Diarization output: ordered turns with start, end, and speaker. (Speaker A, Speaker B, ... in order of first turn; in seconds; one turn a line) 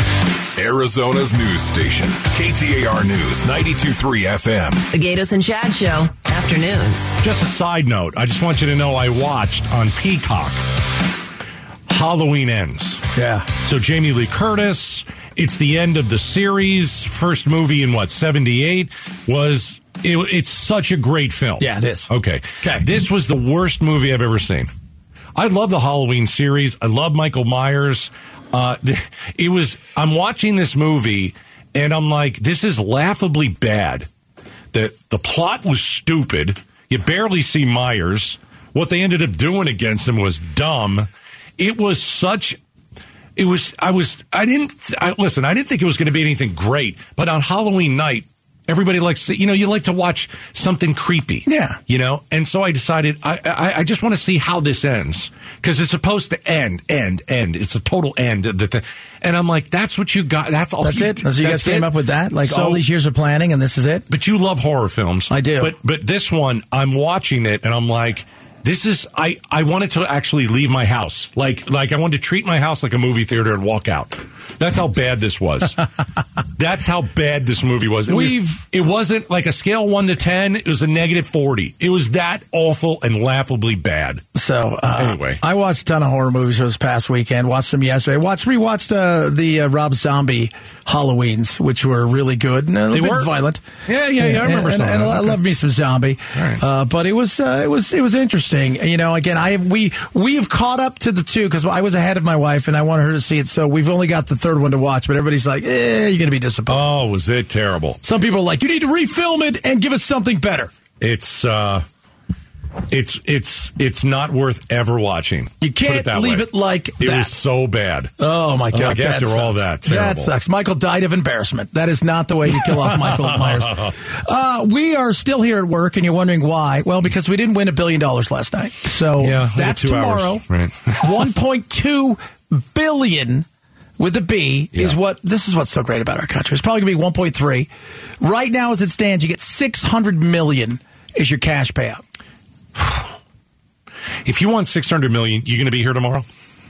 Speaker A: 0.6-4.9
Speaker B: 4.9-7.2
Speaker C: 7.2-10.6
Speaker C: 11.9-13.0
Speaker D: 13.1-13.5
Speaker C: 13.6-24.7
Speaker D: 21.6-22.1
Speaker D: 22.6-22.9
Speaker C: 25.4-34.1
Speaker C: 34.7-42.6
Speaker C: 43.4-61.9
Speaker D: 51.5-51.8
Speaker D: 60.8-64.1
Speaker C: 62.4-62.8
Speaker C: 64.1-75.9
Speaker D: 65.3-65.7
Speaker C: 76.6-84.2
Speaker D: 78.1-78.6
Speaker D: 84.3-93.6
Speaker C: 85.0-85.4
Speaker C: 92.9-93.3
Speaker C: 93.9-95.4
Speaker D: 94.2-106.9
Speaker C: 96.3-96.6
Speaker C: 106.7-108.0
Speaker D: 108.0-110.7
Speaker C: 111.0-111.8
Speaker C: 112.9-116.5
Speaker D: 115.6-117.3
Speaker C: 117.0-118.1
Speaker D: 118.2-133.5
Speaker C: 118.7-120.3
Speaker C: 122.7-123.9
Speaker C: 129.2-131.1
Speaker D: 134.0-137.7
Speaker D: 138.2-142.0
Speaker C: 142.8-143.0
Speaker C: 144.2-146.2